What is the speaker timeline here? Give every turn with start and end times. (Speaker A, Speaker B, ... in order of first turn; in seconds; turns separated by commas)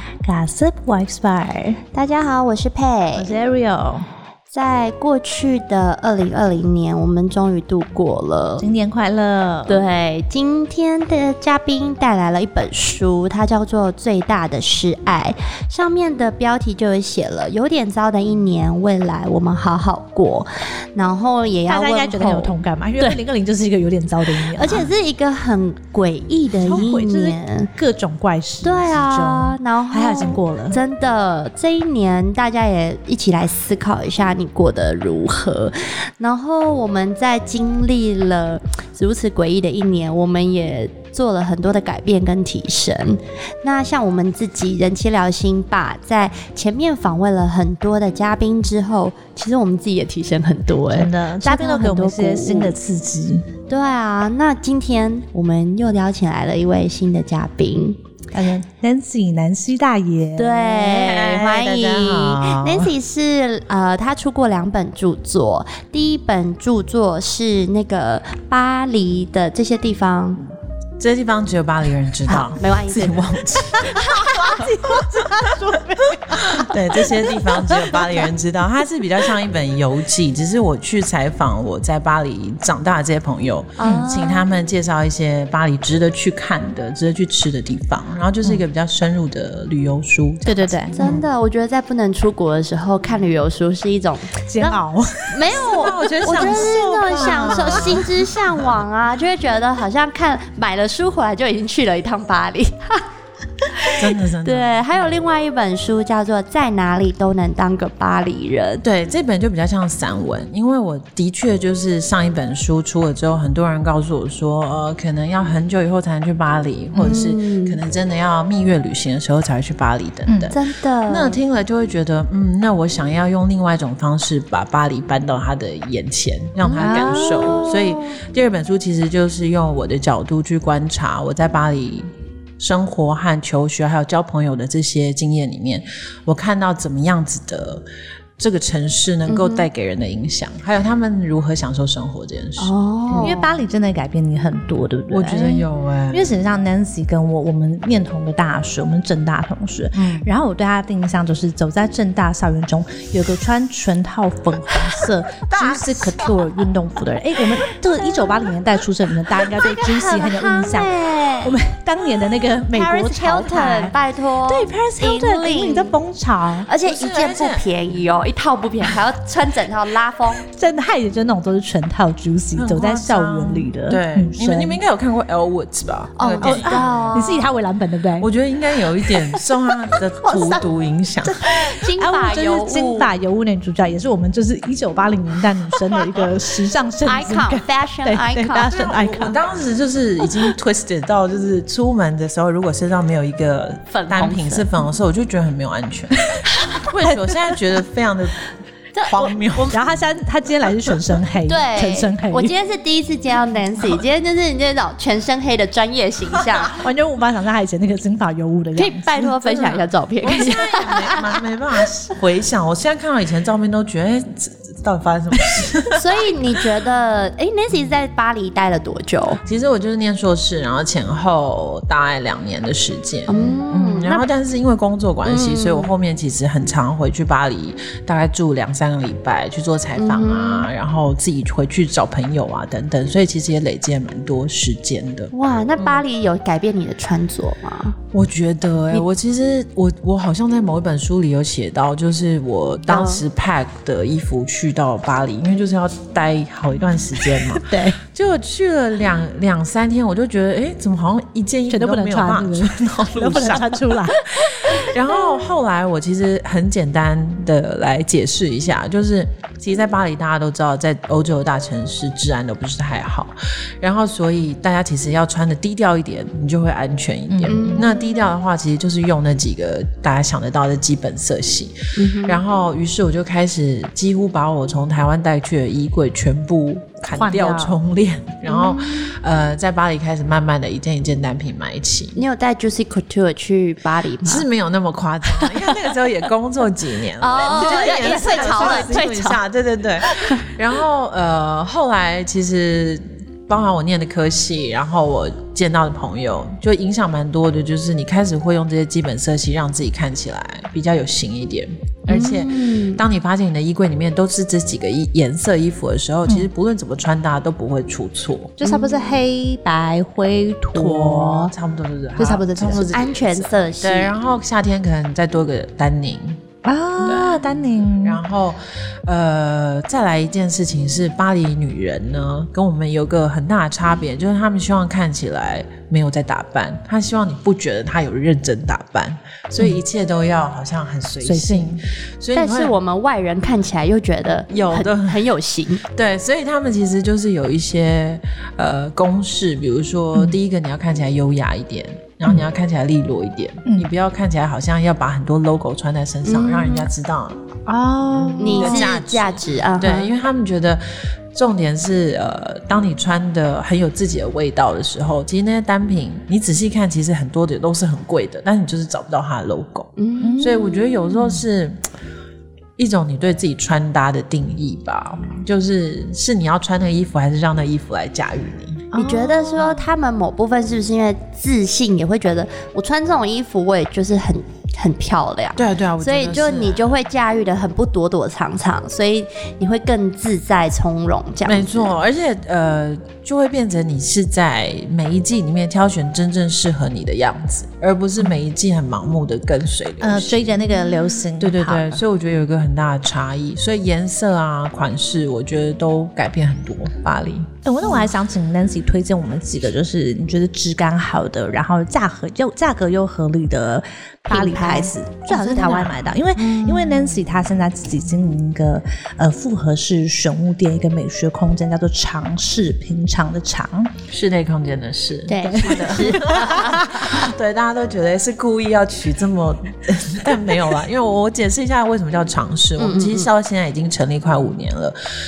Speaker A: 0.2-1.8, Speaker B: 1.9-3.3, Speaker A: 3.2-4.1, Speaker B: 4.5-8.7, Speaker A: 8.6-9.8, Speaker B: 9.7-23.2, Speaker A: 21.7-24.9, Speaker B: 24.5-27.7, Speaker A: 26.6-30.8, Speaker B: 28.6-52.8, Speaker A: 50.9-53.5, Speaker B: 53.7-58.0, Speaker A: 58.3-60.9, Speaker B: 60.4-70.4, Speaker C: 61.0-62.9, Speaker C: 71.0-74.0, Speaker B: 72.5-73.3, Speaker A: 73.8-78.2, Speaker B: 74.0-74.3, Speaker C: 76.3-91.3, Speaker B: 83.8-84.5, Speaker A: 83.8-84.1, Speaker A: 90.5-91.0, Speaker B: 91.0-103.0, Speaker A: 94.5-98.0, Speaker C: 95.5-98.8, Speaker B: 103.6-108.8, Speaker C: 104.0-104.8, Speaker C: 108.8-132.1, Speaker B: 116.9-117.8, Speaker A: 120.3-120.5, Speaker B: 120.5-121.4, Speaker B: 126.7-127.7, Speaker A: 126.7-128.0, Speaker C: 132.6-137.8, Speaker C: 138.4-143.3, Speaker B: 139.3-139.7, Speaker B: 142.6-143.5, Speaker A: 143.2-164.0, Speaker C: 145.1-146.3, Speaker C: 149.9-150.3, Speaker B: 155.5-156.3, Speaker B: 159.5-161.5, Speaker B: 162.7-166.0, Speaker A: 164.5-166.7, Speaker B: 166.7-170.4, Speaker C: 166.8-167.7, Speaker A: 170.5-174.8, Speaker C: 172.6-177.1, Speaker B: 176.2-177.5, Speaker A: 176.4-178.3, Speaker C: 178.2-181.4, Speaker B: 180.2-180.7, Speaker A: 181.2-189.4, Speaker B: 181.5-183.1, Speaker B: 187.1-188.8, Speaker C: 188.7-198.5, Speaker B: 193.9-194.7, Speaker B: 196.6-196.8, Speaker A: 197.1-197.5, Speaker B: 198.9-199.7, Speaker C: 199.0-199.7, Speaker A: 199.6-202.5, Speaker B: 201.5-206.8, Speaker A: 206.8-209.1, Speaker B: 208.8-211.4, Speaker C: 209.3-216.8, Speaker B: 215.9-219.4, Speaker C: 219.4-236.0, Speaker B: 223.3-224.2, Speaker B: 225.2-225.9, Speaker B: 230.0-230.7, Speaker B: 235.3-238.0, Speaker C: 238.1-282.2, Speaker B: 242.9-243.2, Speaker A: 247.5-248.0, Speaker A: 251.7-254.2, Speaker A: 267.3-267.8, Speaker B: 267.5-268.0, Speaker B: 272.0-272.4, Speaker A: 277.1-277.8, Speaker B: 278.5-279.1, Speaker B: 282.2-284.5, Speaker C: 284.2-308.6, Speaker B: 285.3-285.9, Speaker B: 287.2-289.4, Speaker A: 287.5-289.1, Speaker B: 290.0-290.5, Speaker B: 302.1-303.0, Speaker A: 308.6-311.5, Speaker B: 308.6-309.2, Speaker C: 310.7-316.4, Speaker A: 312.2-312.9, Speaker B: 312.9-314.1, Speaker A: 316.6-318.2, Speaker C: 317.0-317.4, Speaker C: 318.0-332.8, Speaker A: 331.2-331.8, Speaker B: 332.4-335.8, Speaker C: 334.5-335.2, Speaker C: 335.9-347.4, Speaker B: 346.3-346.9, Speaker A: 347.7-348.9, Speaker C: 348.2-361.8, Speaker B: 348.4-350.1, Speaker B: 360.0-360.5, Speaker A: 360.2-361.4, Speaker C: 362.8-368.9, Speaker A: 368.9-369.6, Speaker B: 368.9-382.0, Speaker C: 375.6-376.9, Speaker C: 381.4-390.6, Speaker A: 390.0-392.0, Speaker C: 391.4-397.5, Speaker A: 397.6-413.9, Speaker B: 404.3-405.9, Speaker C: 406.4-407.2, Speaker C: 414.1-425.0, Speaker B: 415.3-416.9, Speaker A: 415.4-416.9, Speaker B: 422.8-423.3